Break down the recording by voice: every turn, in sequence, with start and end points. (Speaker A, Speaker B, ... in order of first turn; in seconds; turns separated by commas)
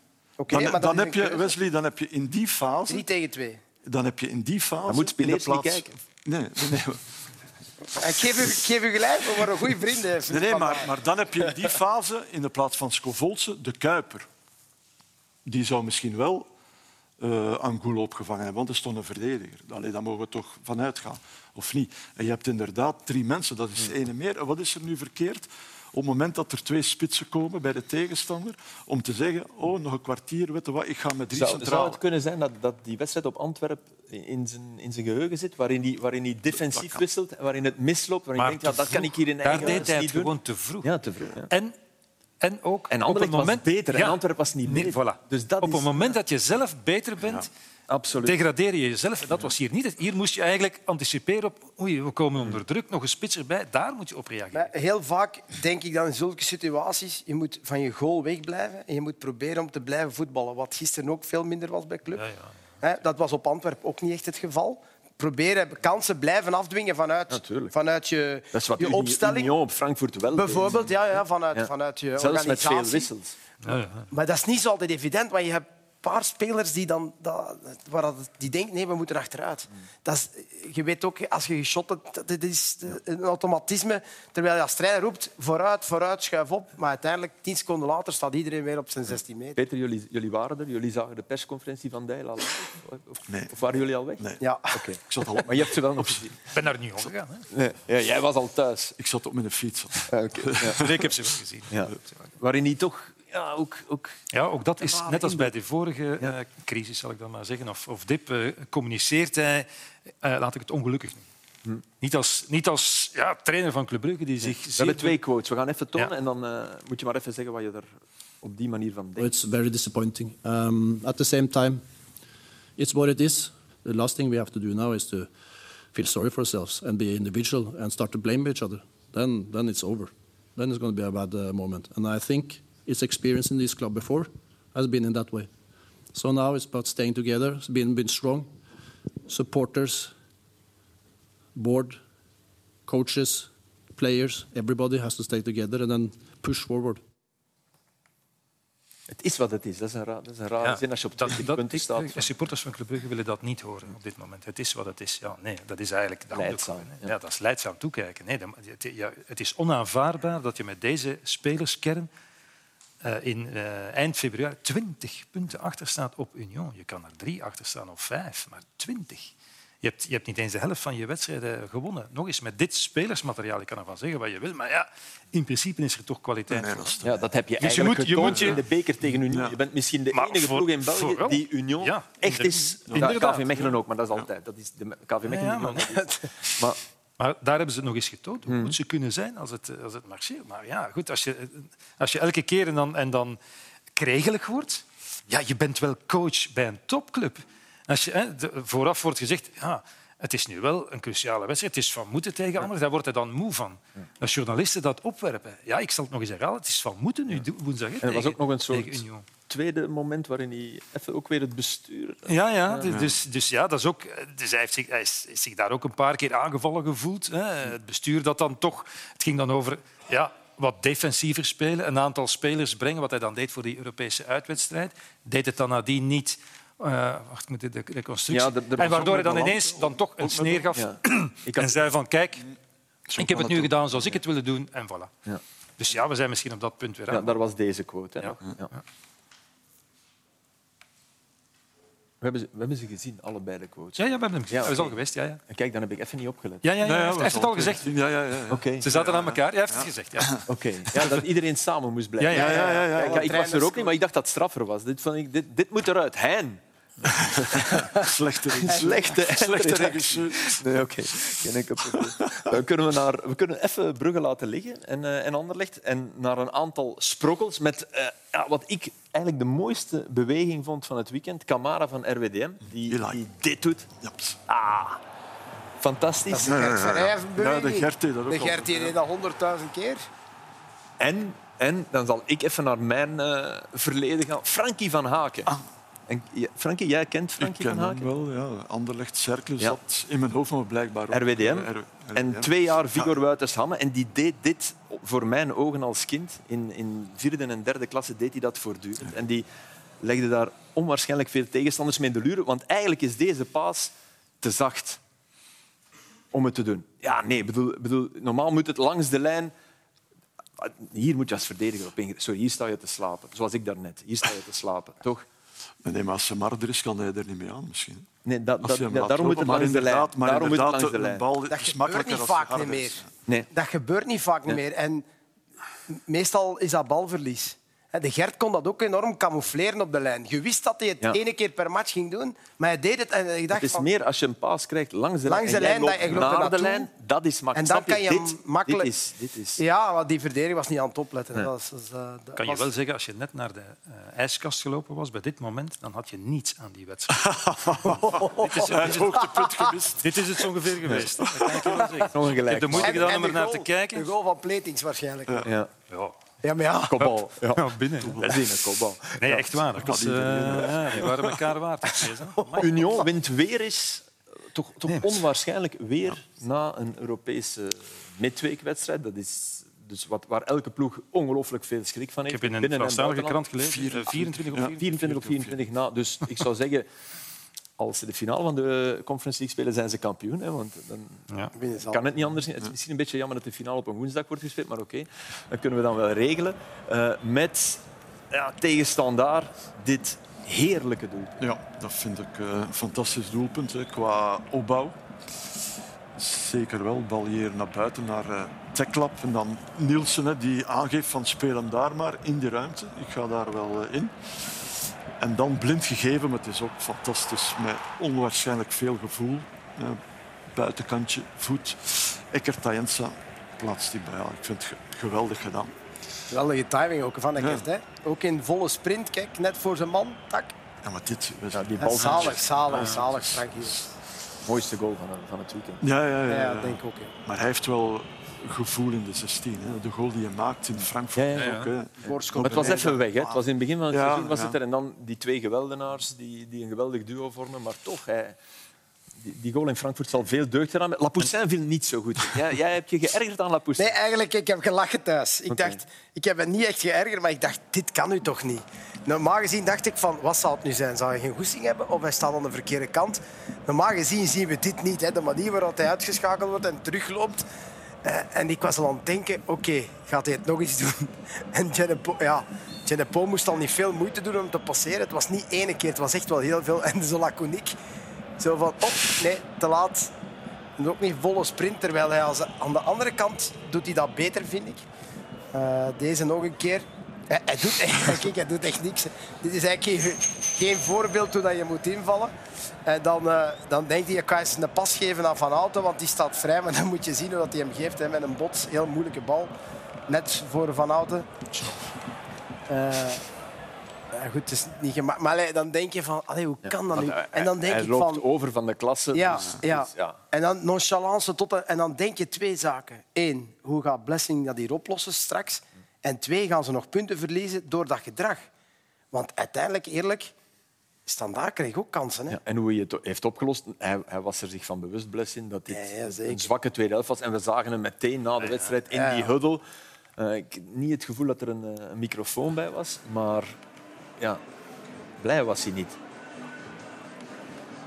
Speaker A: 0.4-1.6, Speaker B: 0.5-3.1, Speaker A: 2.9-3.6, Speaker B: 3.8-7.0, Speaker C: 4.9-5.9, Speaker A: 8.0-10.9, Speaker B: 10.3-14.3, Speaker B: 15.4-16.5, Speaker B: 17.2-32.0, Speaker C: 31.3-41.5, Speaker B: 36.5-37.0, Speaker D: 38.4-40.9, Speaker B: 39.5-39.8, Speaker D: 41.5-41.8, Speaker D: 42.4-47.5, Speaker C: 42.9-46.1, Speaker B: 47.2-47.5, Speaker C: 47.9-48.4, Speaker D: 48.2-54.7, Speaker A: 54.5-62.2, Speaker D: 62.1-62.5, Speaker A: 62.8-69.5, Speaker C: 67.3-67.7, Speaker C: 68.5-73.4, Speaker A: 70.3-73.1, Speaker D: 73.6-74.1, Speaker A: 74.1-89.6, Speaker C: 89.6-96.4, Speaker B: 93.3-93.5, Speaker A: 94.4-94.8, Speaker B: 95.0-96.2, Speaker D: 96.5-97.5, Speaker C: 97.5-99.0, Speaker B: 99.0-101.0, Speaker C: 100.1-101.1, Speaker D: 100.8-102.3, Speaker C: 101.7-104.2, Speaker D: 104.3-109.7, Speaker C: 104.8-105.5, Speaker D: 110.2-111.3, Speaker D: 112.0-115.2, Speaker C: 114.4-117.9, Speaker C: 118.4-119.3, Speaker E: 119.2-121.8, Speaker E: 122.8-125.3, Speaker E: 125.9-135.5, Speaker E: 136.1-138.5, Speaker E: 139.3-140.1, Speaker E: 141.6-142.0, Speaker E: 142.9-147.0, Speaker C: 149.1-152.3, Speaker D: 150.6-162.1, Speaker C: 156.3-157.1, Speaker D: 163.0-177.0, Speaker B: 176.5-177.2, Speaker C: 177.0-186.8, Speaker D: 177.6-178.6, Speaker B: 178.0-178.6, Speaker B: 179.3-179.6, Speaker D: 180.1-183.5, Speaker B: 182.9-184.2, Speaker D: 185.3-185.9, Speaker A: 185.9-186.3, Speaker D: 187.2-193.4, Speaker C: 188.5-188.8, Speaker D: 193.9-209.3, Speaker C: 208.0-212.9, Speaker D: 212.3-232.5, Speaker B: 212.9-213.2, Speaker C: 228.3-229.6, Speaker B: 228.8-230.7, Speaker C: 230.8-231.8, Speaker B: 233.1-234.2, Speaker D: 233.2-235.1, Speaker D: 235.8-237.4, Speaker C: 237.1-238.7, Speaker C: 242.2-244.9, Speaker D: 244.0-245.4, Speaker C: 245.5-246.7, Speaker D: 246.6-247.9, Speaker B: 246.8-250.4, Speaker C: 248.5-248.9, Speaker D: 248.8-250.4, Speaker C: 250.5-273.9, Speaker D: 252.2-252.8, Speaker B: 252.3-253.4, Speaker A: 252.3-253.9, Speaker B: 257.1-260.6, Speaker A: 258.7-258.9, Speaker B: 262.0-262.5, Speaker B: 272.9-273.2, Speaker B: 274.0-274.4, Speaker C: 274.5-275.0, Speaker C: 275.8-276.7, Speaker A: 276.3-280.0, Speaker B: 276.5-279.0, Speaker C: 281.0-285.5, Speaker C: 286.1-288.1, Speaker B: 287.4-293.1, Speaker C: 291.1-299.5, Speaker C: 300.0-305.0, Speaker C: 306.3-309.5, Speaker C: 310.6-315.3, Speaker B: 315.8-318.1, Speaker C: 318.2-321.2, Speaker B: 318.6-323.1, Speaker A: 321.5-325.0, Speaker A: 325.9-333.9, Speaker C: 333.5-339.6, Speaker A: 335.3-336.9, Speaker A: 337.5-338.9, Speaker A: 339.6-342.7, Speaker D: 342.4-347.3, Speaker B: 347.1-350.3, Speaker A: 348.0-349.7, Speaker D: 348.5-349.2, Speaker D: 350.0-354.1, Speaker B: 350.9-351.8, Speaker A: 351.8-352.1, Speaker C: 352.1-353.1, Speaker A: 352.8-355.5, Speaker C: 355.4-355.7, Speaker D: 355.9-356.2, Speaker A: 356.4-357.1, Speaker C: 356.9-357.7, Speaker D: 357.5-358.3, Speaker B: 358.0-358.4, Speaker C: 358.2-359.6, Speaker D: 359.2-363.1, Speaker B: 359.8-361.4, Speaker A: 362.5-362.9, Speaker C: 362.6-373.4, Speaker D: 364.9-365.1, Speaker D: 372.3-375.2, Speaker B: 373.6-375.6, Speaker C: 374.8-376.9, Speaker C: 377.8-381.3, Speaker A: 381.6-382.1, Speaker C: 381.9-391.4, Speaker B: 391.4-395.0, Speaker B: 396.2-404.1, Speaker B: 405.2-410.0, Speaker B: 410.5-415.8, Speaker A: 416.3-420.6, Speaker B: 417.4-417.7, Speaker B: 420.8-423.8, Speaker C: 421.5-422.4, Speaker A: 421.8-423.9, Speaker D: 422.1-423.0, Speaker C: 424.4-425.8, Speaker B: 425.8-433.4, Speaker A: 426.3-427.1, Speaker C: 431.1-431.6, Speaker D: 431.4-431.7, Speaker A: 432.1-433.0, Speaker C: 432.3-438.4, Speaker B: 433.9-434.6, Speaker C: 439.2-444.0, Speaker A: 443.8-457.5, Speaker C: 445.5-445.8, Speaker A: 458.0-467.8, Speaker A: 468.4-470.1, Speaker A: 470.8-474.9, Speaker A: 475.5-482.3, Speaker A: 482.9-489.5, Speaker A: 490.1-491.3, Speaker D: 491.5-491.9, Speaker A: 492.7-493.2, Speaker A: 494.1-498.2, Speaker C: 496.6-500.2, Speaker A: 499.1-508.5, Speaker A: 509.1-510.3, Speaker A: 511.1-512.4, Speaker C: 512.3-519.6, Speaker A: 515.7-516.5, Speaker D: 518.4-518.7, Speaker A: 518.9-519.3, Speaker C: 520.2-523.6, Speaker C: 525.2-526.0